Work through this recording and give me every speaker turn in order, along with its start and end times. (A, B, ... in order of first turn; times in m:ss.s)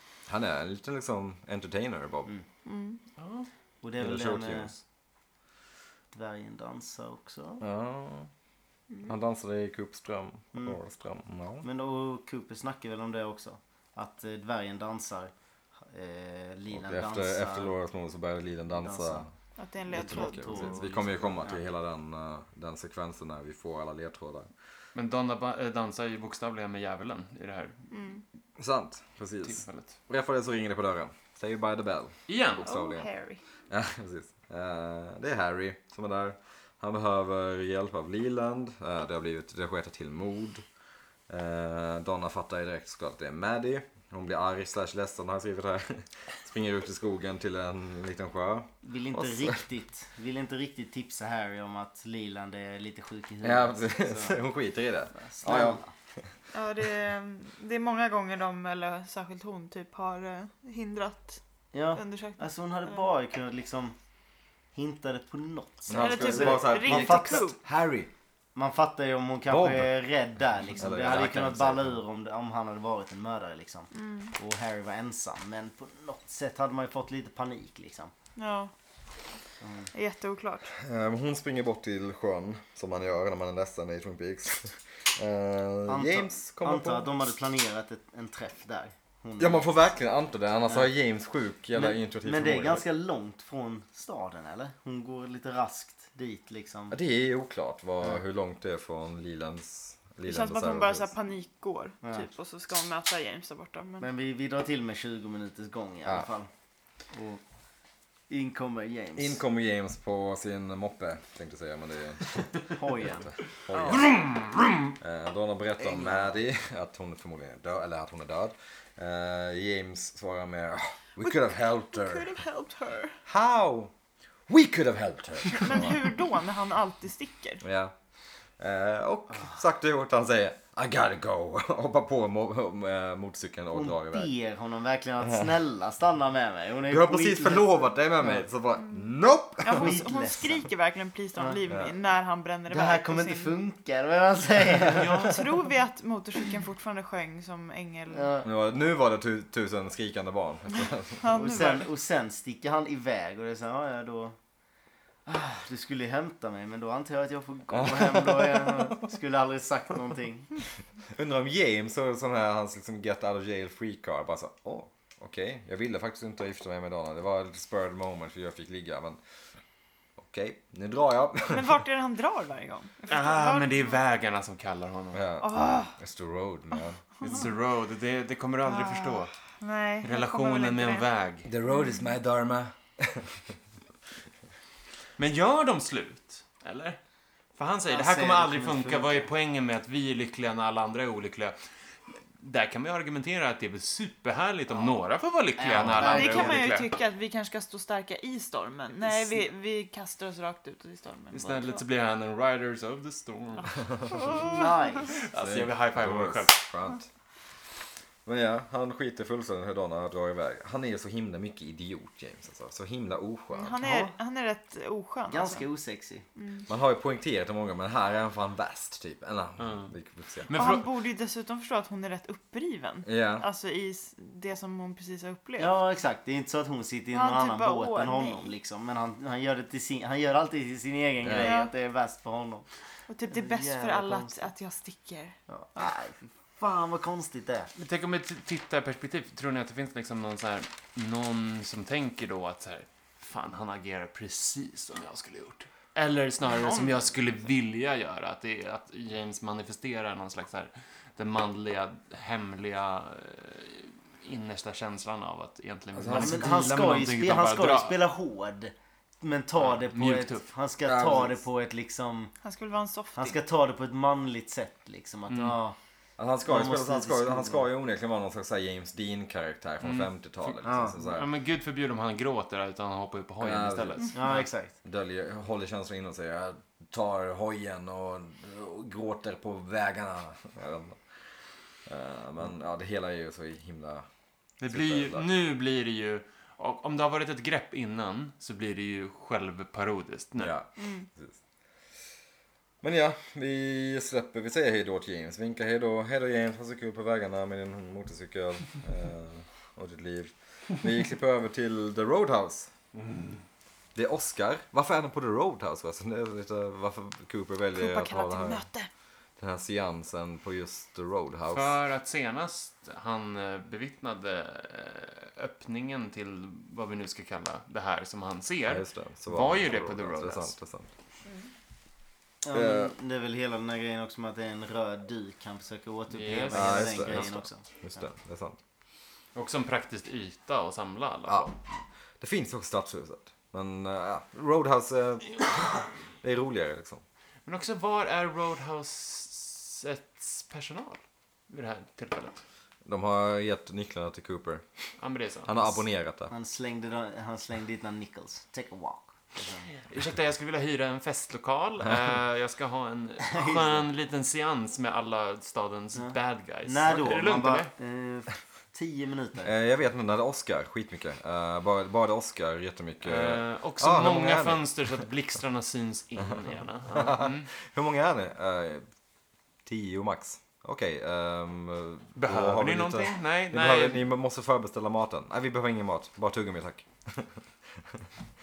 0:00.3-0:02.3 A
0:02.6-0:03.0 B
0:03.2-0:03.5 C
0:03.8-0:04.7 D
0:04.0-0:04.8 A
0:06.1-0:07.6 D
0:07.6-0:08.3 A
0:09.0-0:11.7 A
0:11.6-0:15.3 D
0:15.8-0:17.7 D
0:16.7-0:19.3 A
0:18.7-0:19.3 D
0:19.6-0:20.7 B
0:19.9-0:21.6 D
0:19.9-0:24.5 A
0:25.0-0:27.8 C
0:27.9-0:28.2 B
0:28.6-0:33.1 A
0:29.4-0:30.0 C
0:32.3-0:32.7 C
0:32.6-0:33.4 B
0:33.7-0:40.6 A
0:41.3-0:49.6 A
0:48.8-0:54.4 D
0:53.4-0:55.8 A
0:55.2-0:55.9 D
0:56.5-1:01.4 B
1:01.7-1:04.0 D
1:02.0-1:03.1 B
1:04.7-1:07.5 D
1:05.9-1:08.1 A
1:06.0-1:07.6 B
1:08.6-1:18.1 D
1:09.5-1:10.0 A
1:10.8-1:12.0 A
1:13.9-1:14.3 B
1:18.4-1:18.7 B
1:19.6-1:19.9 D
1:19.9-1:20.7 B
1:20.8-1:27.2 A
1:25.9-1:29.7 D
1:29.4-1:32.8 A
1:31.7-1:37.0 D
1:36.9-1:41.1 A
1:40.2-1:44.1 B
1:42.0-1:42.3 D
1:44.0-1:46.5 D
1:47.1-1:47.4 D
1:48.3-1:49.4 D
1:49.2-1:54.2 A
1:52.7-1:53.3 D
1:53.9-1:54.7 C
1:55.0-2:02.4 A
1:55.8-1:56.3 D
2:01.2-2:03.2 B
2:03.3-2:03.9 A
2:04.5-2:06.1 A
2:05.6-2:07.6 B
2:07.6-2:07.9 A
2:08.6-2:14.3 A
2:13.7-2:18.4 D
2:16.9-2:20.0 A
2:19.6-2:23.6 B
2:19.7-2:20.6 D
2:22.7-2:25.4 D
2:24.9-2:28.3 B
2:28.1-2:28.5 D
2:28.4-2:31.3 A
2:31.2-2:31.9 B
2:31.3-2:34.4 D
2:35.3-2:40.5 D
2:37.7-2:38.9 A
2:41.1-2:49.2 A
2:50.2-2:51.8 A
2:51.5-2:54.0 B
2:53.1-2:55.2 C
2:55.1-2:57.4 A
2:55.4-2:56.0 B
2:57.2-2:59.3 C
2:58.7-3:01.1 B
3:00.0-3:01.5 C
3:01.4-3:03.6 A
3:01.7-3:02.1 B
3:05.2-3:07.0 C
3:07.6-3:11.6 C
3:07.9-3:09.3 D
3:12.4-3:16.9 C
3:15.6-3:16.7 D
3:16.0-3:21.8 B
3:19.0-3:19.4 D
3:21.3-3:24.5 C
3:24.1-3:25.0 B
3:24.4-3:25.2 D
3:25.1-3:26.6 C
3:25.4-3:27.1 A
3:28.3-3:33.8 A
3:33.5-3:35.6 B
3:33.8-3:34.1 D
3:35.3-3:36.3 D
3:36.4-3:36.7 B
3:36.7-3:40.7 A
3:39.6-3:40.9 C
3:40.5-3:45.8 B
3:43.0-3:43.5 A
3:45.6-3:52.7 D
3:47.1-3:48.5 B
3:51.2-3:51.5 A
3:51.4-3:51.7 B
3:53.1-3:55.4 B
3:53.3-3:54.5 D
3:55.5-3:57.7 D
3:57.8-4:18.0 C
4:06.4-4:07.0 B
4:15.9-4:16.7 A
4:16.1-4:22.3 D
4:19.6-4:20.4 C
4:20.8-4:21.4 A
4:22.4-4:23.4 B
4:23.2-4:25.8 D
4:25.3-4:25.6 C
4:26.2-4:31.3 A
4:26.4-4:27.7 D
4:29.8-4:34.5 C
4:30.6-4:31.0 D
4:33.4-4:34.0 A
4:34.1-4:34.7 D
4:34.8-4:41.0 A
4:41.9-4:44.0 A
4:44.6-4:50.6 C
4:44.7-4:45.3 A
4:50.4-4:51.4 A
4:50.8-4:51.1 B
4:52.8-5:02.7 A
5:03.0-5:03.4 C
5:04.0-5:08.7 A
5:07.8-5:08.9 B
5:09.4-5:11.8 A
5:11.5-5:20.5 C
5:18.7-5:20.9 A
5:22.4-5:28.0 D
5:22.5-5:22.9 A
5:26.1-5:27.4 C
5:26.5-5:28.6 A
5:29.4-5:31.6 C
5:32.2-5:37.0 A
5:37.4-5:42.4 C
5:42.8-5:44.6 A
5:45.0-5:45.8 C
5:45.5-5:46.3 A
5:46.3-5:49.7 D
5:49.8-5:57.7 C
5:53.2-5:53.8 D
5:56.0-5:59.5 D
5:59.4-6:05.0 A
6:03.0-6:07.5 C
6:06.9-6:08.8 A
6:09.7-6:18.1 A
6:12.2-6:14.1 C